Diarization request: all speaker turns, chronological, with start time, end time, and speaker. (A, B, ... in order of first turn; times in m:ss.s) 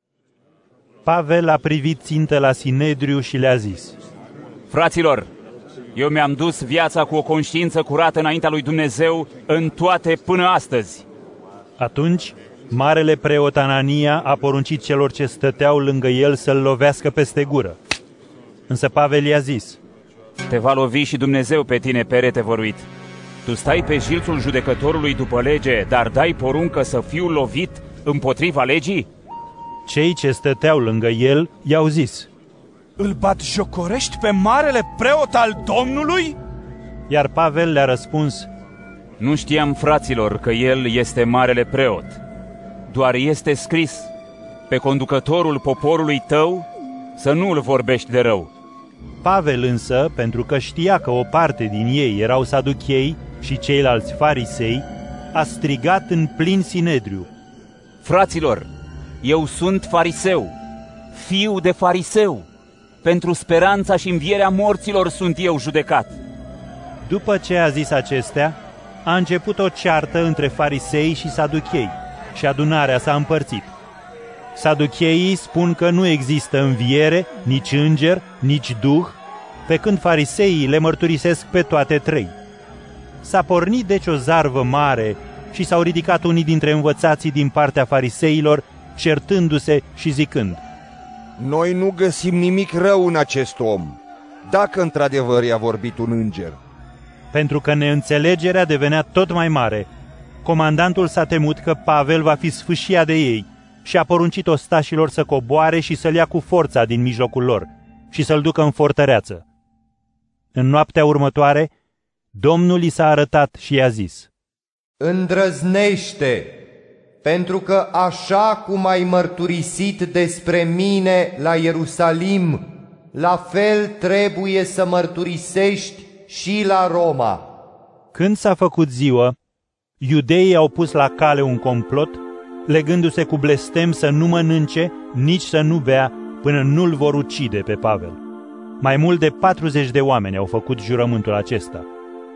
0:01.0-0:03.9 A
0:04.7-0:05.3 B
0:05.9-0:11.0 B
0:11.8-0:17.8 A
0:18.7-0:19.8 A
0:20.5-0:22.8 B
0:23.4-0:29.1 B
0:29.9-0:32.3 A
0:33.0-0:36.4 C
0:37.1-0:38.5 A
0:39.2-0:42.2 B
0:42.9-0:44.1 B
0:44.7-0:46.6 B
0:47.2-0:48.5 B
0:49.2-0:57.3 A
0:58.0-0:58.7 B
0:59.2-1:00.5 B
1:01.1-1:02.4 B
1:03.0-1:06.2 B
1:07.0-1:13.7 A
1:14.5-1:22.3 A
1:23.2-1:30.6 A
1:31.4-1:36.6 D
1:37.3-1:39.9 A
1:40.4-1:49.4 A
1:50.5-1:51.7 A
1:52.3-1:54.3 A
1:55.0-1:56.5 E
1:57.2-2:07.4 E
2:08.1-2:09.3 A
2:10.0-2:18.2 A
2:18.8-2:21.9 A